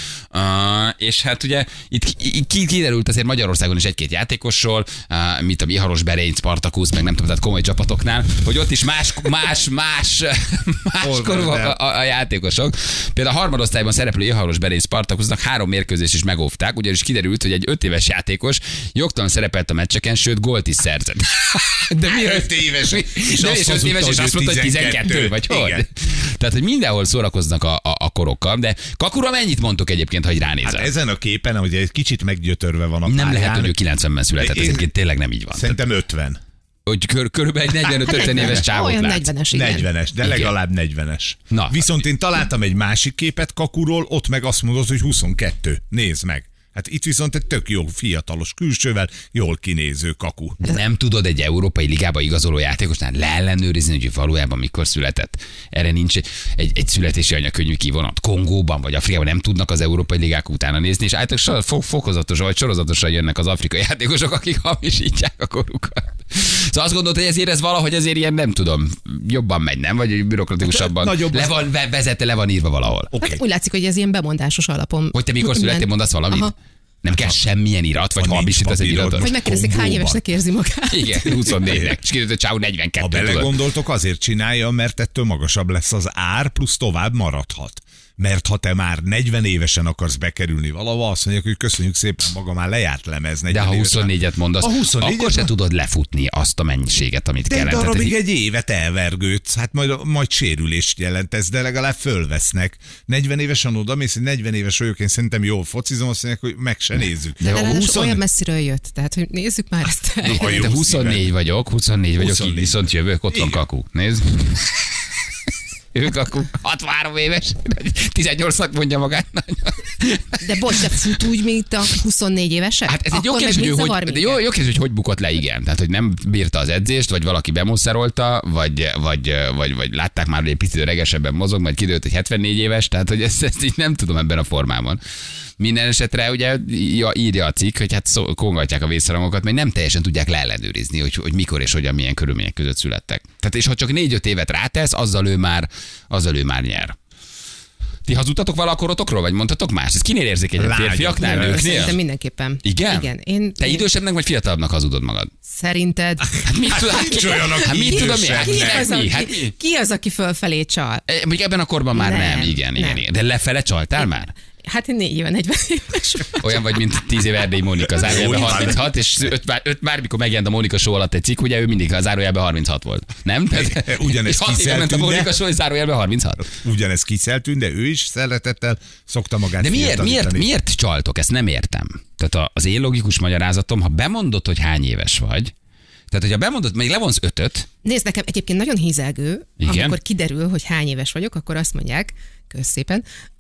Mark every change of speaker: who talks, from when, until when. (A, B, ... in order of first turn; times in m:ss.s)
0:00.3-0:30.9 A
0:11.0-0:11.8 B
0:22.1-0:25.8 B
0:30.6-0:33.8 B
0:33.1-0:35.8 A
0:34.4-0:34.9 B
0:35.5-0:36.4 B
0:36.9-0:39.3 A
0:38.0-0:39.9 C
0:39.5-0:50.6 B
0:40.2-0:40.6 A
0:41.5-0:41.9 A
0:50.6-1:13.1 A
1:10.7-1:11.6 B
1:13.1-1:13.4 B
1:13.2-1:16.5 C
1:15.1-1:19.3 A
1:17.1-1:17.4 B
1:18.2-1:20.2 B
1:19.2-1:21.7 C
1:20.9-1:23.6 A
1:23.0-1:35.5 B
1:33.5-1:38.2 A
1:37.5-1:48.2 B
1:47.4-1:47.9 A
1:47.4-1:50.6 C
1:50.2-1:54.8 A
1:50.3-1:51.3 B
1:52.2-1:53.6 B
1:55.9-2:00.7 A
2:00.4-2:04.4 C
2:02.9-2:15.0 A
2:15.6-2:27.0 A
2:28.0-2:32.0 A
2:30.6-2:31.9 B
2:31.2-2:33.9 C
2:32.6-2:35.3 A
2:35.4-2:36.4 C
2:36.4-2:39.5 A
2:36.7-2:38.9 B
2:37.2-2:41.0 C
2:41.1-2:44.3 A
2:41.9-2:43.0 C
2:44.6-2:46.8 C
2:46.4-2:56.5 A
2:47.9-2:48.9 B
2:53.5-2:55.3 B
2:56.5-3:00.5 B
2:59.6-3:05.5 A
3:06.1-3:07.7 A
3:07.8-3:13.0 C
3:09.6-3:10.0 A